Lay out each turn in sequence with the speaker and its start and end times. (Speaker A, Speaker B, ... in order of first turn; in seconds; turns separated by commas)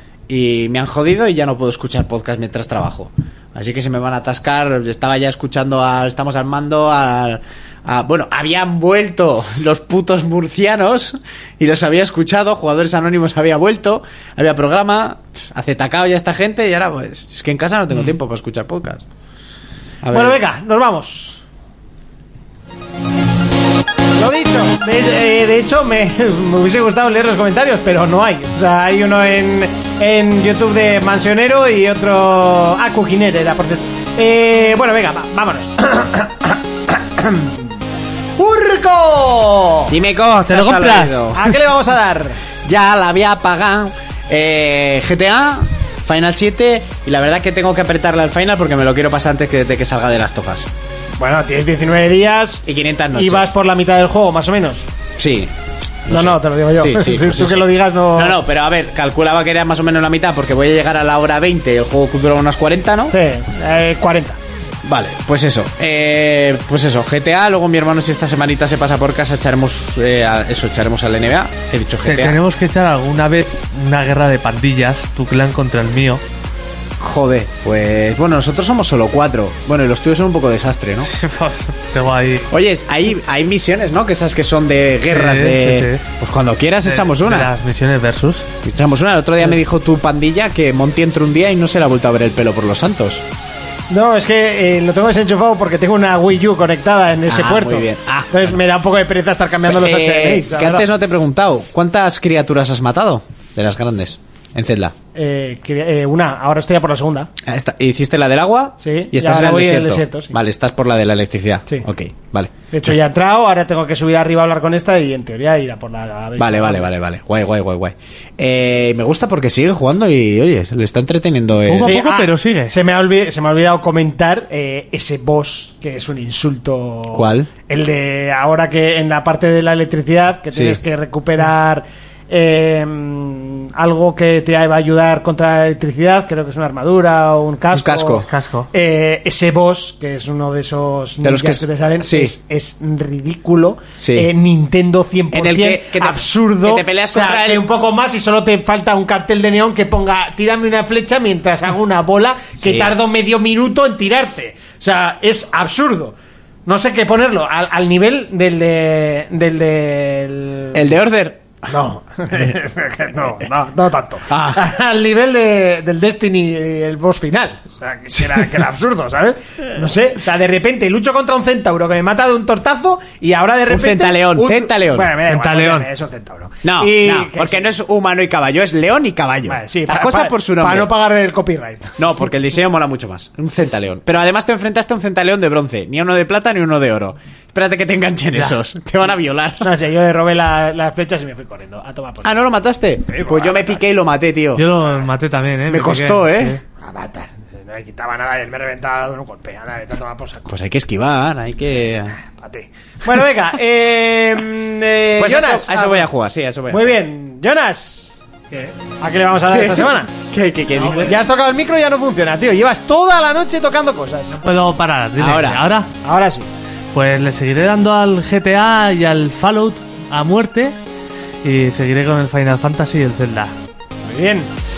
Speaker A: 0.3-19.0, Speaker A: 20.0-20.4, Speaker B: 20.1-21.4, Speaker B: 24.1-37.7, Speaker B: 38.4-39.9, Speaker A: 39.9-41.5, Speaker C: 40.5-41.2, Speaker B: 41.3-42.4, Speaker A: 42.6-50.7, Speaker B: 51.2-54.9, Speaker A: 52.6-53.5, Speaker A: 55.2-55.5, Speaker A: 56.0-63.1, Speaker B: 56.1-58.4, Speaker B: 63.1-64.4, Speaker A: 64.8-72.4, Speaker C: 72.0-76.2, Speaker A: 77.0-81.1, Speaker C: 81.1-82.5, Speaker A: 82.5-87.5, Speaker C: 85.1-86.0, Speaker C: 86.8-88.5, Speaker A: 88.6-93.2, Speaker B: 93.9-100.8, Speaker A: 97.3-98.6, Speaker A: 99.7-104.9, Speaker B: 105.1-107.3, Speaker A: 107.4-112.6, Speaker B: 108.8-110.3, Speaker B: 112.7-116.9, Speaker A: 116.4-122.0, Speaker C: 121.6-122.8, Speaker B: 121.8-160.8, Speaker A: 127.1-127.5, Speaker A: 130.5-130.8, Speaker A: 137.7-138.3, Speaker C: 138.2-138.7, Speaker A: 141.2-142.3, Speaker A: 144.0-144.3, Speaker A: 145.3-147.7, Speaker A: 152.6-153.0, Speaker A: 160.7-161.4, Speaker B: 161.7-177.7, Speaker A: 164.3-164.6, Speaker A: 173.7-175.1, Speaker C: 175.2-175.9, Speaker A: 176.6-180.9, Speaker B: 179.5-182.1, Speaker A: 182.0-189.7, Speaker B: 189.6-192.3, Speaker A: 192.2-194.6, Speaker B: 193.1-193.8, Speaker C: 194.5-196.6, Speaker A: 195.7-196.6, Speaker B: 196.8-200.5, Speaker A: 200.5-202.2, Speaker B: 202.2-206.1, Speaker A: 205.2-206.9, Speaker B: 206.7-210.1, Speaker A: 209.5-211.2, Speaker B: 210.9-214.4, Speaker C: 214.4-215.9, Speaker A: 215.2-215.6, Speaker B: 216.0-216.5, Speaker C: 216.9-220.8, Speaker C: 221.4-223.5, Speaker B: 224.1-224.5